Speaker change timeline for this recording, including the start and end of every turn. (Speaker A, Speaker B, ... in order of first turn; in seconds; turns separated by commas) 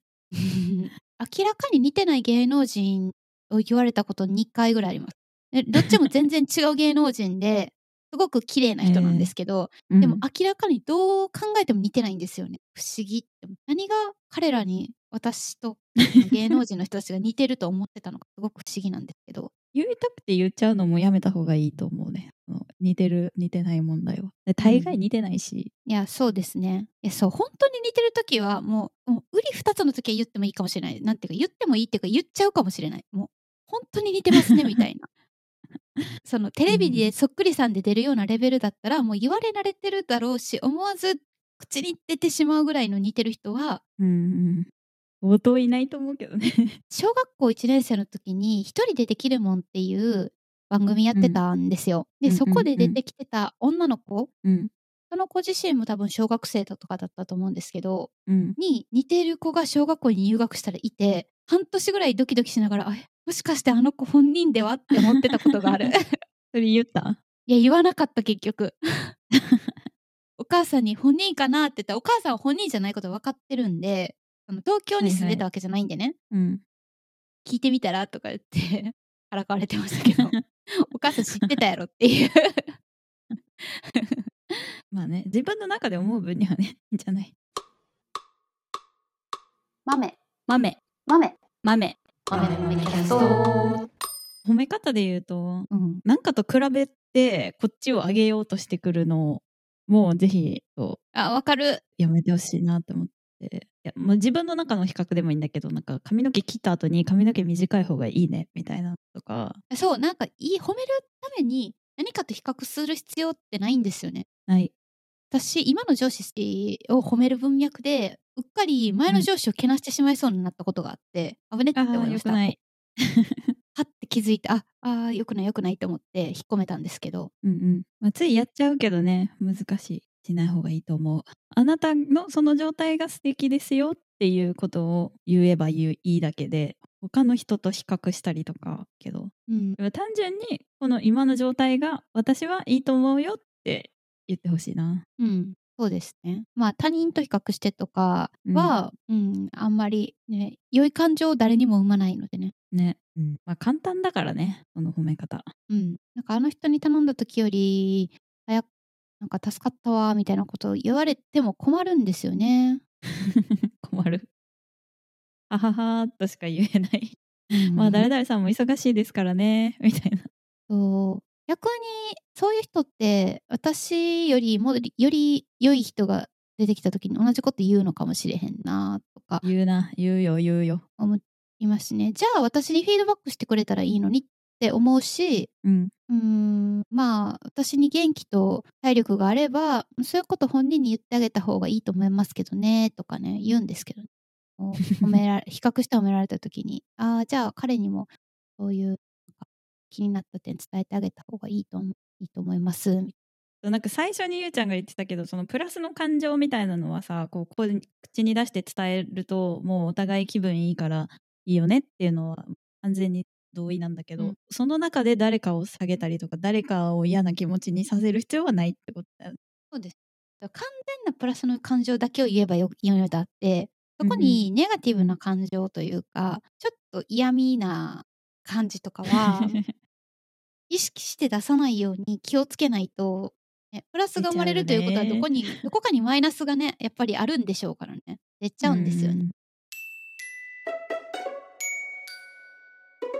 Speaker A: 0.3-19.5, Speaker B: 5.8-6.0, Speaker B: 8.8-9.3, Speaker B: 9.9-10.2, Speaker B: 19.7-25.7, Speaker A: 24.6-25.0, Speaker A: 25.9-35.1, Speaker A: 36.2-43.8, Speaker B: 36.7-37.1, Speaker B: 44.0-44.7, Speaker B: 45.2-46.8, Speaker A: 46.9-54.3, Speaker B: 51.1-51.4, Speaker B: 52.2-53.0, Speaker B: 54.4-54.7, Speaker A: 55.1-66.2, Speaker B: 58.3-58.6, Speaker B: 65.1-65.9, Speaker B: 66.5-67.2, Speaker A: 67.5-69.1, Speaker B: 69.3-69.8, Speaker A: 70.4-76.2, Speaker B: 75.0-75.4, Speaker B: 76.3-76.6, Speaker A: 77.4-82.7, Speaker B: 80.0-80.4, Speaker A: 83.6-84.6, Speaker B: 84.9-87.3, Speaker A: 89.8-90.2, Speaker B: 90.5-90.8, Speaker A: 91.0-91.3, Speaker B: 91.6-93.8, Speaker A: 92.3-93.4, Speaker B: 94.4-101.0, Speaker A: 95.7-96.0, Speaker A: 101.1-101.8, Speaker B: 102.0-109.6, Speaker A: 109.7-114.2, Speaker A: 115.3-122.5, Speaker B: 121.7-123.5, Speaker A: 123.7-127.3, Speaker B: 127.4-145.0, Speaker A: 139.5-139.8, Speaker A: 145.2-152.5, Speaker B: 148.4-148.7, Speaker B: 152.7-155.5, Speaker A: 155.7-158.7, Speaker A: 159.2-162.8, Speaker B: 163.2-164.2, Speaker B: 165.5-167.2, Speaker A: 167.5-168.1, Speaker B: 167.7-170.2, Speaker A: 170.7-179.4, Speaker B: 179.4-180.8, Speaker A: 181.0-185.5, Speaker B: 185.6-185.9, Speaker A: 186.1-203.1, Speaker B: 194.8-195.2, Speaker B: 203.6-219.4, Speaker A: 219.7-229.6, Speaker B: 224.0-225.2, Speaker B: 229.1-229.7, Speaker A: 230.7-239.2, Speaker B: 234.2-235.7, Speaker B: 238.6-239.3